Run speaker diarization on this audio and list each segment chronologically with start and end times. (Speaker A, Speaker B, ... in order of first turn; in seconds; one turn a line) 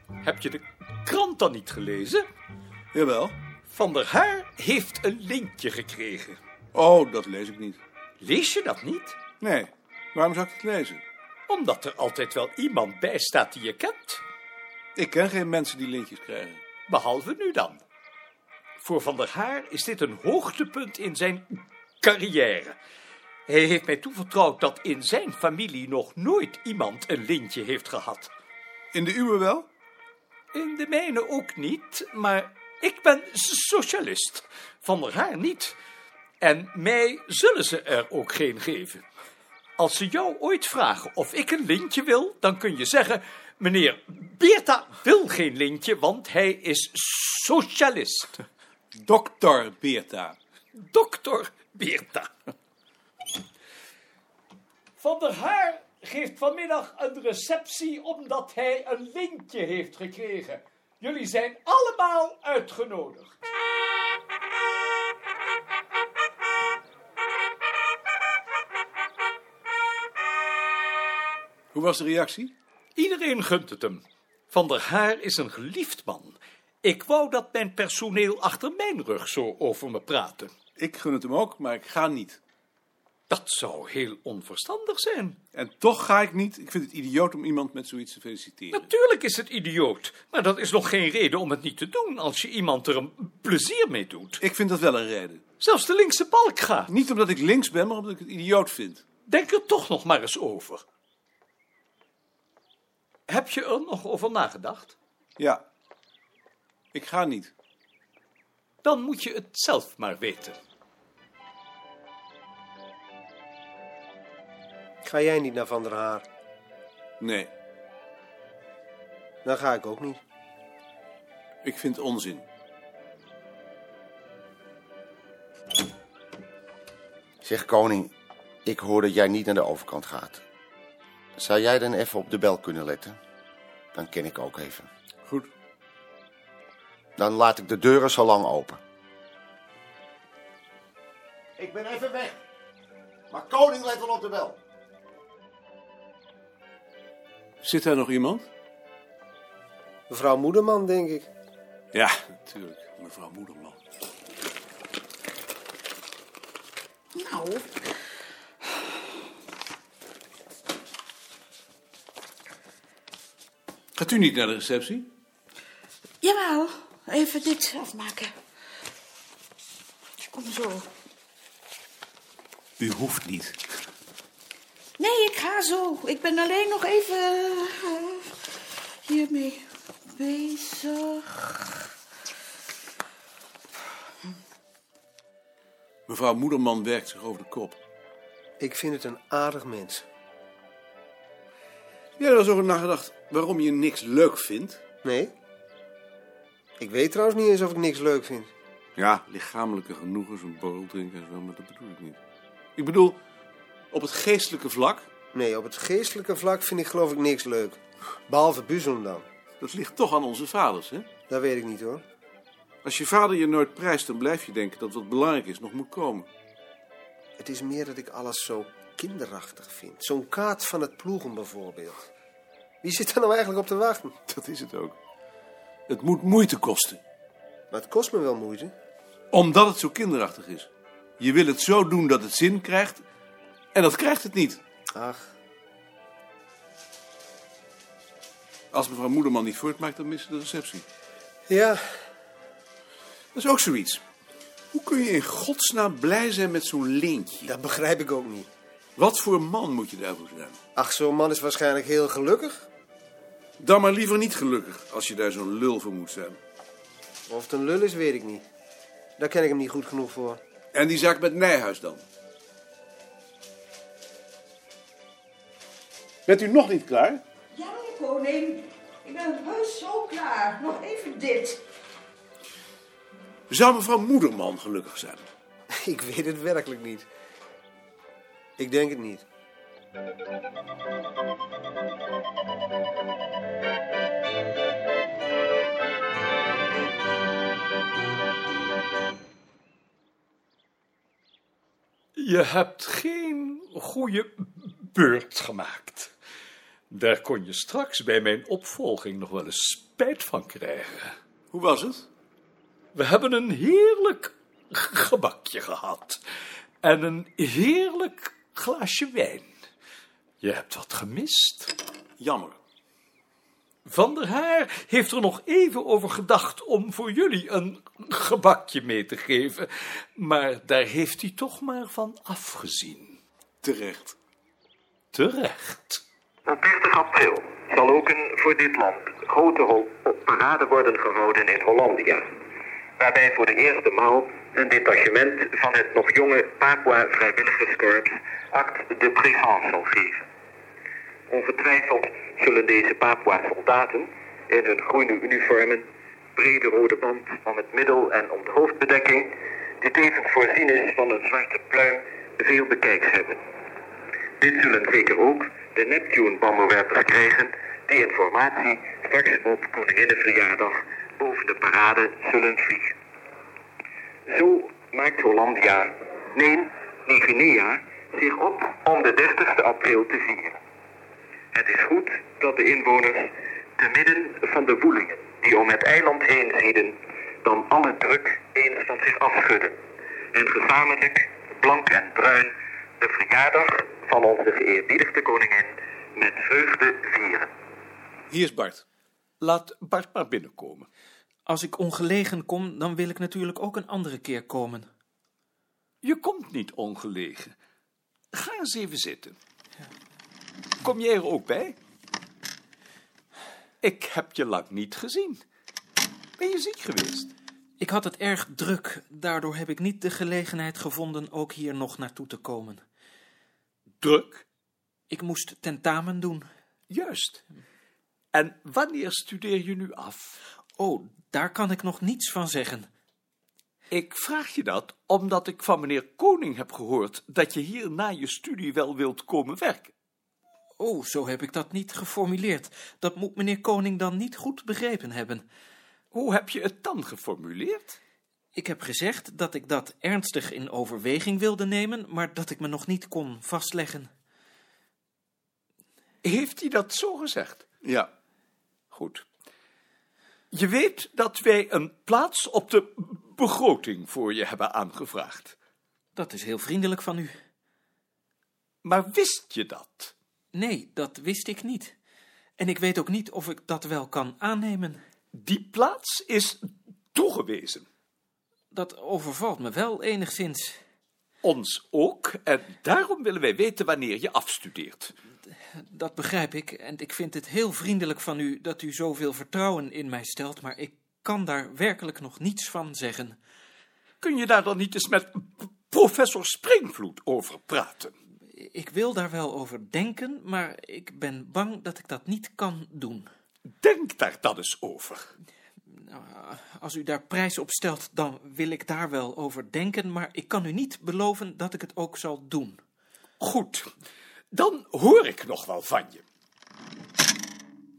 Speaker A: 0.2-2.2
Speaker B: 2.9-3.4
Speaker A: 3.7-6.4
Speaker B: 6.7-7.8
Speaker A: 8.2-9.2
Speaker B: 9.4-11.0
Speaker A: 11.5-14.2
Speaker B: 15.0-16.6
Speaker A: 16.9-17.8
Speaker A: 18.8-22.8
Speaker A: 23.5-28.3
Speaker B: 28.9-29.7
Speaker A: 30.5-35.8
Speaker A: 36.4-39.0
Speaker A: 39.8-48.4
Speaker B: 49.0-50.4
Speaker A: 50.8-52.3
Speaker A: 55.0-63.4
Speaker B: 71.7-72.5
Speaker A: 73.0-80.5
Speaker B: 80.8-82.4
Speaker A: 83.3-85.4
Speaker B: 85.5-88.9
Speaker A: 88.7-94.4
Speaker B: 94.4-95.4
Speaker A: 95.6-96.9
Speaker B: 96.9-99.0
Speaker A: 99.3-100.8
Speaker A: 103.3-105.0
Speaker B: 106.9-107.5
Speaker A: 108.8-110.6
Speaker C: 115.0-116.2
Speaker B: 117.2-117.5
Speaker C: 119.4-120.2
Speaker B: 121.6-122.5
Speaker D: 127.4-128.1
Speaker D: 128.7-130.4
Speaker D: 131.4-133.2
Speaker D: 133.9-134.9
Speaker D: 137.2-138.8
Speaker D: 141.6-142.4
Speaker D: 143.3-144.6
Speaker B: 147.6-148.5
Speaker C: 150.1-151.3
Speaker B: 151.9-153.8
Speaker E: 157.2-157.7
Speaker B: 164.0-165.1
Speaker E: 166.2-168.3
Speaker E: 170.2-170.9
Speaker B: 172.8-173.6
Speaker E: 175.0-178.3
Speaker E: 179.0-181.3
Speaker B: 186.1-187.8
Speaker C: 188.6-190.0
Speaker B: 192.2-194.8
Speaker C: 195.0-195.3
Speaker C: 196.8-198.5
Speaker B: 199.0-202.2
Speaker B: 202.8-203.2
Speaker B: 203.9-205.1
Speaker C: 205.3-209.2
Speaker B: 209.6-211.1
Speaker C: 211.3-212.0
Speaker B: 212.8-216.3
Speaker C: 217.4-222.1
Speaker C: 222.8-224.1
Speaker B: 224.3-225.0
Speaker B: 225.9-227.0
Speaker C: 227.7-228.7
Speaker B: 229.3-233.0
Speaker B: 233.7-234.6
Speaker C: 234.9-235.2
Speaker B: 238.7-240.8
Speaker C: 241.5-241.8
Speaker B: 243.3-244.0
Speaker B: 244.7-247.5
Speaker C: 247.5-248.5
Speaker B: 249.0-250.6
Speaker C: 250.8-252.7
Speaker B: 253.6-256.4
Speaker C: 257.3-258.4
Speaker C: 259.2-260.4
Speaker B: 260.7-262.0
Speaker B: 266.3-267.2
Speaker E: 267.5-271.6
Speaker B: 273.5-275.3
Speaker C: 275.8-277.1
Speaker C: 278.6-279.2
Speaker A: 292.2-296.1
Speaker A: 296.9-301.2
Speaker B: 301.5-302.1
Speaker A: 302.9-306.2
Speaker A: 306.8-309.5
Speaker A: 310.4-311.7
Speaker B: 312.2-312.6
Speaker A: 313.9-323.2
Speaker B: 323.6-324.2
Speaker A: 325.1-326.0
Speaker F: 326.4-332.3
Speaker F: 333.0-340.2
Speaker F: 341.3-353.4
Speaker F: 354.4-362.9
Speaker F: 364.3-370.6
Speaker F: 371.5-379.8
Speaker F: 380.3-387.5
Speaker B: 388.3-388.8
Speaker A: 389.4-390.9
Speaker G: 391.5-394.9
Speaker A: 396.0-397.6
Speaker A: 398.3-399.4
Speaker A: 400.8-401.8
Speaker A: 403.8-405.4
Speaker A: 406.4-407.3
Speaker G: 407.8-412.8
Speaker A: 414.0-414.4
Speaker G: 415.1-416.5
Speaker A: 416.9-417.4
Speaker A: 418.3-420.4
Speaker G: 420.8-422.9
Speaker A: 423.9-429.9
Speaker G: 430.8-435.4
Speaker A: 436.1-438.0
Speaker G: 438.6-444.1
Speaker A: 446.2-447.6
Speaker B: 447.8-448.1
Speaker A: 448.9-449.3
Speaker A: 450.5-455.6
Speaker G: 456.1-457.3
Speaker A: 458.8-460.1
Speaker G: 460.5-461.9
Speaker G: 462.6-465.0
Speaker A: 465.3-467.9
Speaker G: 468.7-470.8
Speaker A: 471.4-475.1
Speaker G: 475.8-483.4
Speaker A: 484.2-488.1
Speaker G: 488.6-493.3
Speaker A: 493.8-495.3
Speaker G: 495.9-502.8
Speaker A: 503.4-503.9
Speaker A: 504.5-506.2